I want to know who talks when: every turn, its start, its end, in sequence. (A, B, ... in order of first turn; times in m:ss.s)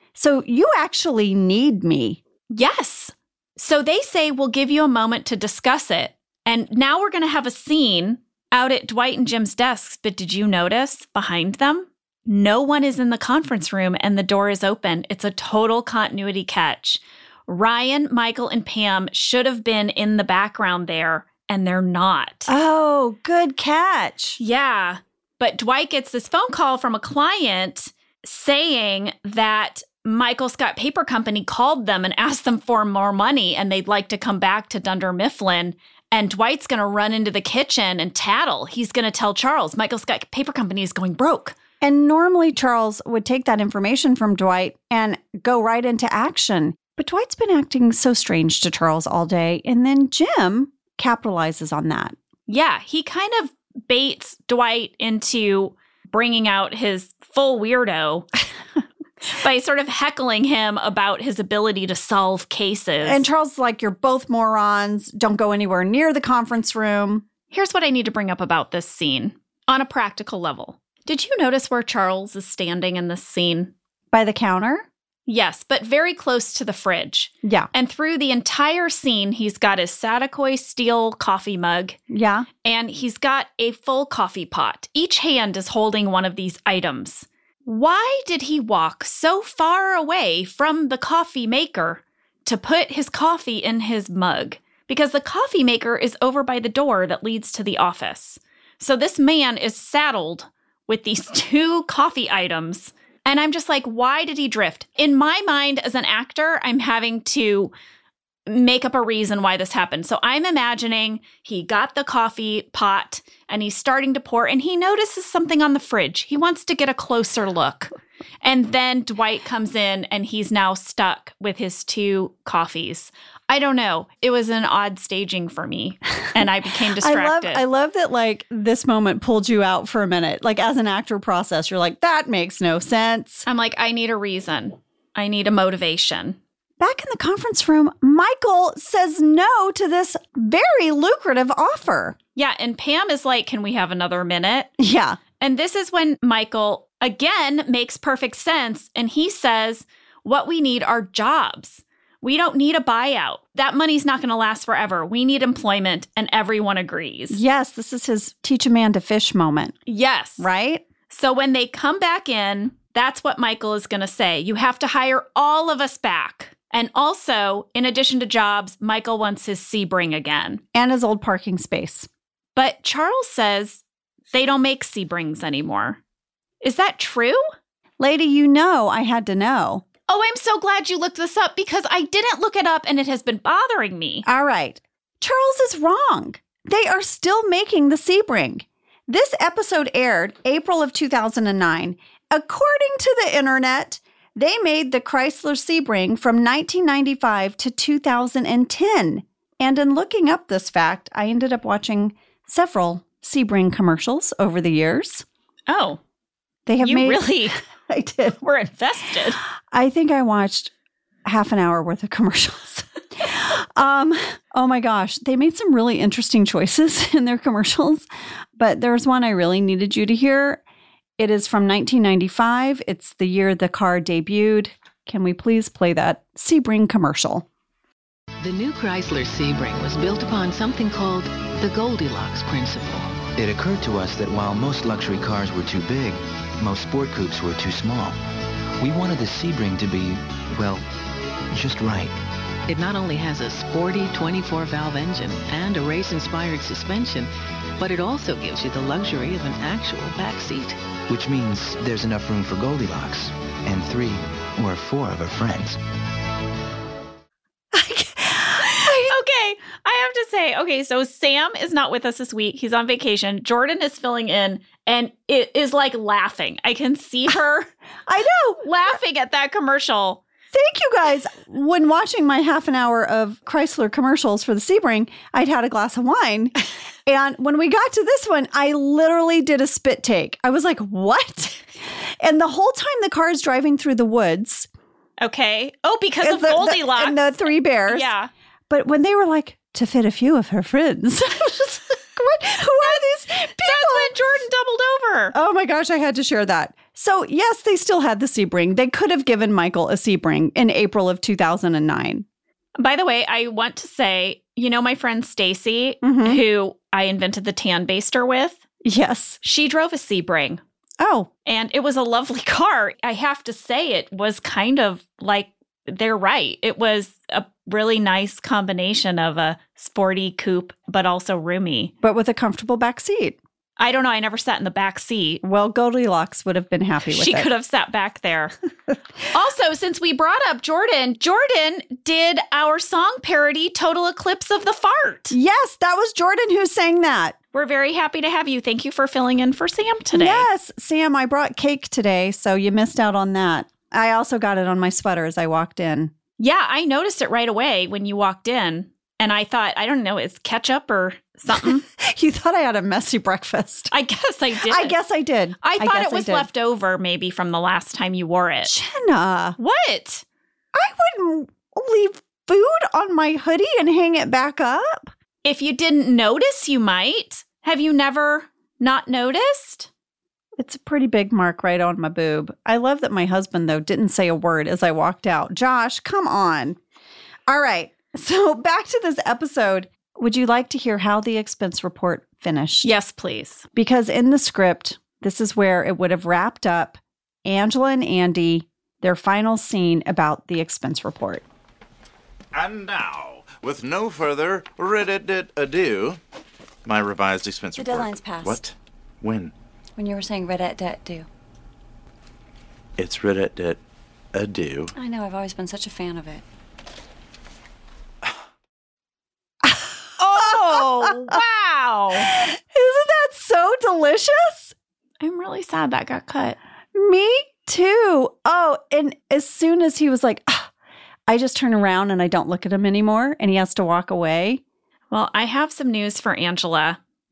0:00.2-0:02.2 A
0:02.5-0:22.5 B
0:22.5-0:24.4 A
0:24.4-0:41.6 B
0:41.8-0:52.2 A
0:52.5-0:58.3 B
0:59.3-1:03.2 B
1:03.0-1:07.2 A
1:07.5-1:13.7 B
1:14.1-1:14.9 A
1:15.3-1:22.0 B
1:17.4-1:17.7 A
1:22.1-1:22.5 A
1:22.6-1:47.7 B
1:48.5-1:57.9 B
1:58.4-2:07.6 B
2:07.0-2:13.5 A
2:13.5-2:16.4 B
2:16.8-2:22.2 A
2:22.4-2:24.7 B
2:24.8-2:25.2 A
2:25.4-2:37.4 B
2:37.3-2:39.8 A
2:39.9-2:40.5 B
2:40.4-2:40.8 A
2:41.1-2:50.6 B
2:50.7-2:52.1 A
2:52.6-2:56.0 B
2:56.6-2:57.4 B
2:58.0-2:59.8 A
3:00.1-3:04.3 B
3:04.2-3:25.2 A
3:25.7-3:26.0 B
3:26.7-3:28.4 A
3:26.8-3:27.6 B
3:28.4-3:29.4 B
3:29.7-3:30.7 A
3:31.2-3:38.1 A
3:38.6-3:40.6 A
3:41.2-3:47.5 A
3:48.4-3:53.2 C
3:53.4-3:58.2 D
3:58.8-4:00.8 D
4:01.5-4:02.2 D
4:02.7-4:10.8 C
4:11.1-4:15.8 D
4:17.7-4:19.2 A
4:18.6-4:27.7 B
4:28.1-4:28.6 A
4:28.6-4:30.2 B
4:30.5-4:36.6 A
4:37.1-4:44.7 A
4:45.2-4:47.3 B
4:46.2-4:48.1 A
4:47.9-4:48.3 B
4:48.7-4:54.2 A
4:52.8-4:55.4 B
4:55.3-5:02.2 A
5:02.8-5:08.6 B
5:06.0-5:06.4 A
5:08.8-5:09.4 A
5:09.4-5:10.6 B
5:11.0-5:11.3 A
5:11.5-5:21.9 B
5:22.0-5:23.4 A
5:23.8-5:25.4 B
5:25.4-5:27.5 A
5:27.1-5:28.6 B
5:29.3-5:35.4 B
5:35.3-5:37.4 A
5:37.5-5:40.5 B
5:40.1-5:46.1 A
5:46.4-5:51.9 B
5:51.9-5:53.9 A
5:53.9-5:55.0 B
5:54.6-5:56.5 A
5:55.6-5:58.7 B
5:58.6-5:59.6 A
5:59.6-6:00.2 B
6:00.7-6:05.1 A
6:05.4-6:09.9 B
6:10.6-6:16.8 A
6:17.5-6:22.9 A
6:22.8-6:23.6 B
6:23.8-6:31.4 A
6:32.5-6:36.2 E
6:36.8-6:39.5 E
6:37.8-6:38.6 F
6:40.0-6:41.3 F
6:43.0-6:43.8 E
6:44.3-6:44.9 E
6:45.0-6:46.4 F
6:49.6-6:51.4 A
6:50.2-6:52.3 B
6:52.1-6:54.7 A
6:55.2-6:56.6 B
6:56.9-7:00.7 A
7:01.3-7:04.6 A
7:05.1-7:07.0 B